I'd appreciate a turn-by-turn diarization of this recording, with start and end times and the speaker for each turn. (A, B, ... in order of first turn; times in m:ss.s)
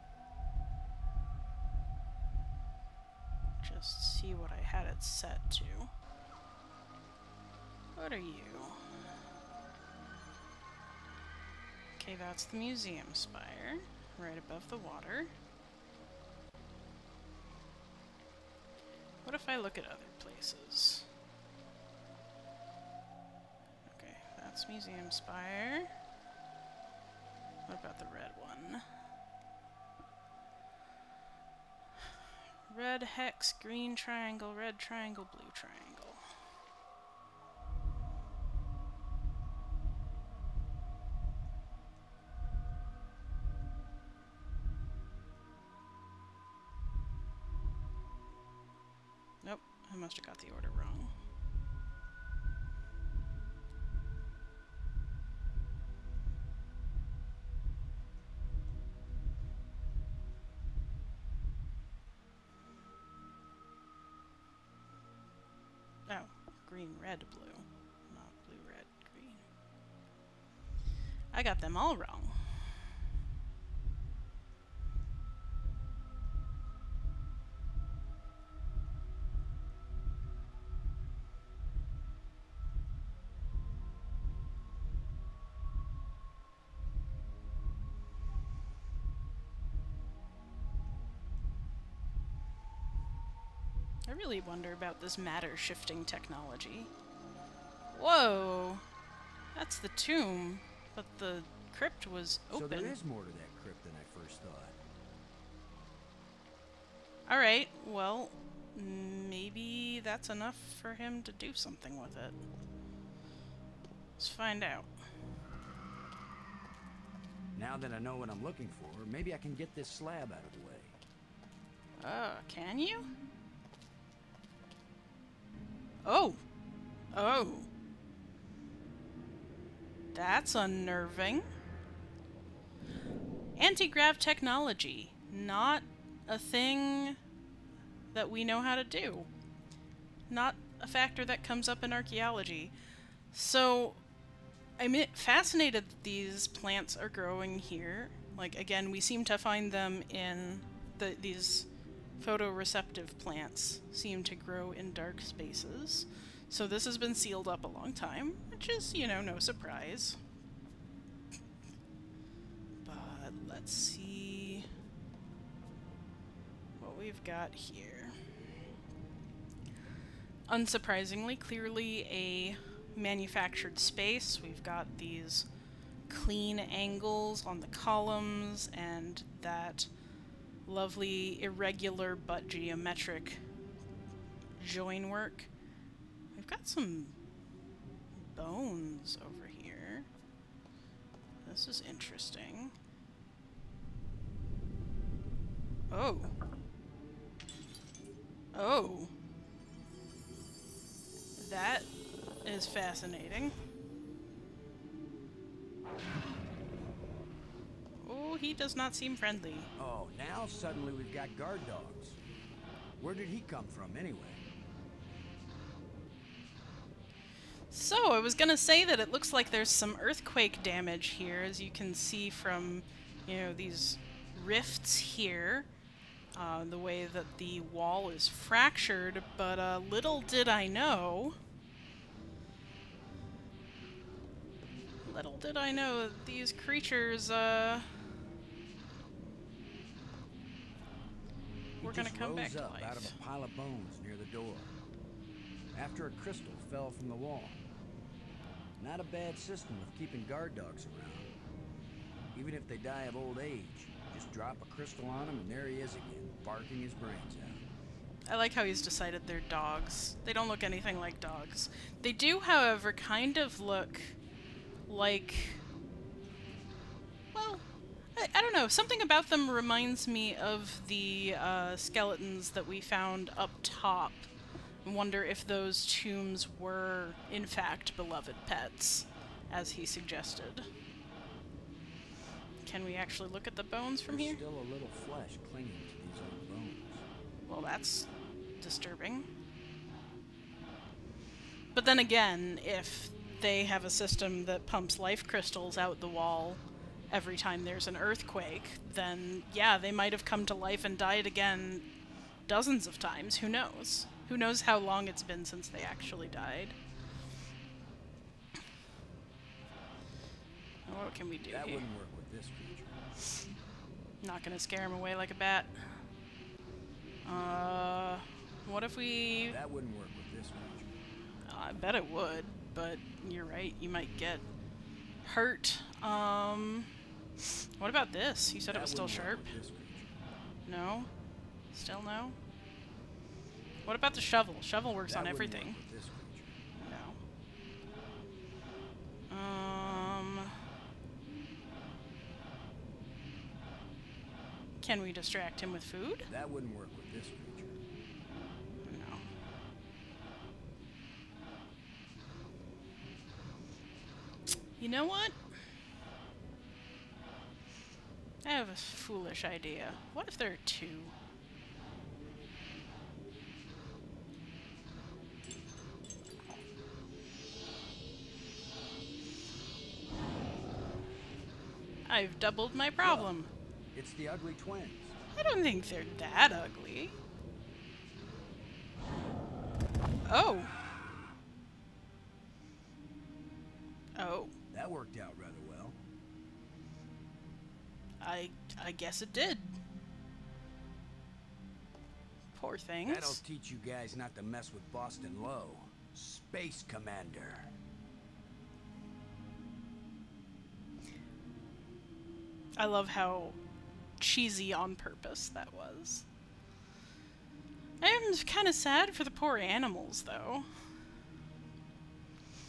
0:03.6-0:05.9 A
0:08.0-0:08.8 A
0:12.0-0:15.3 A
0:19.2-0:21.1 A
0:23.9-0:25.9 A
0:27.7-0:28.8 A
0:32.7-0:36.2 A
0:49.4-0:51.1 A
1:06.1-1:09.5 A
1:11.3-1:12.4 A
1:34.1-1:36.9 A
1:37.9-1:38.8 A
1:39.6-1:43.0 A
1:42.5-1:44.8 B
1:47.3-1:52.4 A
1:54.2-1:54.9 A
1:57.6-2:01.0 B
2:02.0-2:03.1 A
2:06.0-2:06.4 A
2:07.1-2:07.7 A
2:10.1-2:11.5 A
2:13.6-2:17.2 A
2:18.1-2:19.3 A
2:20.3-2:22.7 A
2:23.3-2:24.0 A
2:24.8-2:31.7 A
2:32.2-2:40.2 A
2:42.8-2:44.7 A
2:46.8-2:48.1 A
2:50.5-2:55.5 A
2:56.1-2:59.9 A
3:00.7-3:03.4 A
3:04.6-3:05.5 A
3:06.4-3:07.1 A
3:08.2-3:10.1 A
3:11.4-3:12.7 A
3:15.9-3:16.3 A
3:18.5-3:19.1 A
3:21.4-3:21.9 A
3:22.4-3:23.6 A
3:28.0-3:29.7 A
3:29.8-3:32.2 B
3:33.0-3:34.4 B
3:37.7-3:45.7 A
3:46.4-3:51.4 A
3:55.0-3:57.9 A
4:01.8-4:03.2 A
4:01.8-4:04.7 B
4:05.7-4:07.6 B
4:08.8-4:11.3 B
4:12.3-4:17.7 B
4:18.3-4:24.2 A
4:24.9-4:25.6 A
4:27.3-4:27.6 A
4:28.2-4:34.3 A
4:34.8-4:40.7 A
4:42.6-4:44.4 A
4:44.1-4:47.0 B
4:47.5-4:49.3 A
4:51.7-5:01.9 A
5:02.5-5:06.8 A
5:10.9-5:11.9 A
5:11.5-5:13.0 B
5:14.2-5:15.7 A
5:17.2-5:19.6 A
5:19.5-5:20.9 B
5:21.5-5:24.4 A
5:25.2-5:26.9 A
5:27.8-5:29.6 A
5:28.7-5:30.2 B
5:30.7-5:31.1 A
5:31.7-5:32.4 A
5:33.8-5:35.8 A
5:35.1-5:36.6 B
5:36.8-5:37.2 A
5:39.3-5:40.6 A
5:44.8-5:46.3 A
5:46.3-5:47.8 B
5:48.8-5:49.2 A
5:54.8-5:55.4 A
5:58.4-6:01.1 A
6:12.1-6:13.5 A
6:13.0-6:13.4 B
6:13.9-6:15.2 B
6:15.3-6:17.2 A
6:20.3-6:20.7 A
6:24.2-6:24.5 A
6:24.7-6:26.0 B
6:28.2-6:29.8 A
6:32.5-6:33.4 A
6:33.1-6:37.7 B
6:42.8-6:43.6 A
6:44.2-6:46.2 A
6:48.0-6:50.7 A